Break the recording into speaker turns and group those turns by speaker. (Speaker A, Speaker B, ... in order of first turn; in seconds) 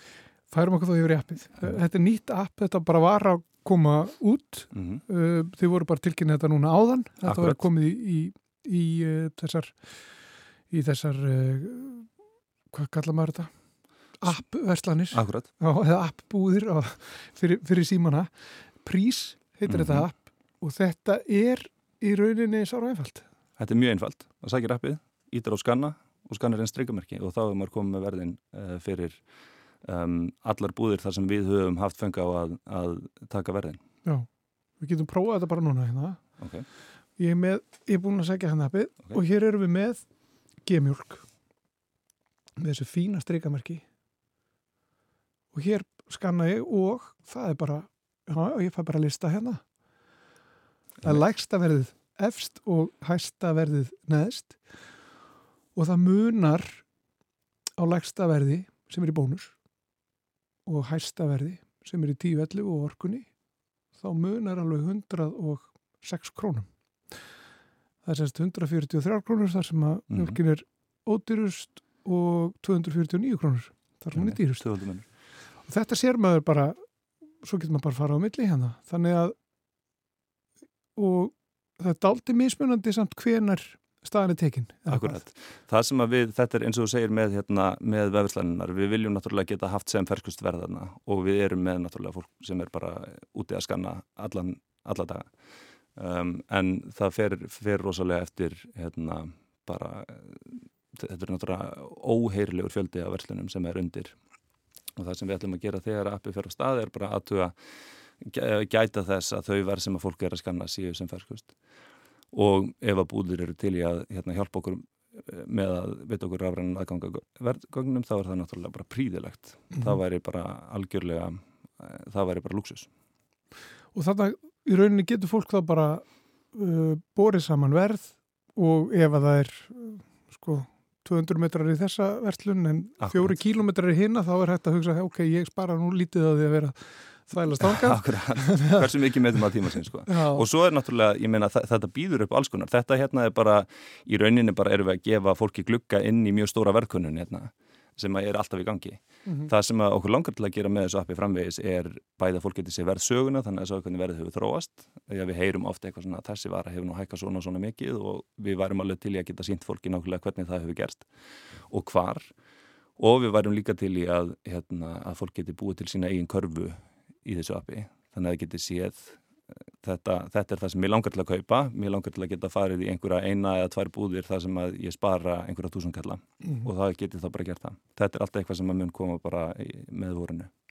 Speaker A: 0.5-12.1, 12.7-23.3, 34.0-36.6, 37.2-41.3, 42.6-43.9, 45.5-49.7, 51.0-54.9, 55.7-56.9, 57.8-59.5, 60.6-63.3, 64.0-66.7, 68.0-79.4, 80.9-85.2, 123.9-138.8, 140.1-140.5, 149.2-149.5
Speaker B: 4.7-5.0, 7.2-7.6, 15.1-15.5, 19.7-20.1, 23.6-29.3, 29.8-33.8, 36.4-36.7, 70.1-70.4, 74.1-75.1, 84.9-95.3, 95.9-104.2, 105.0-107.5, 108.2-111.5, 112.3-122.9, 133.0-133.3, 137.6-161.1, 161.7-162.3, 163.0-169.2, 169.8-180.5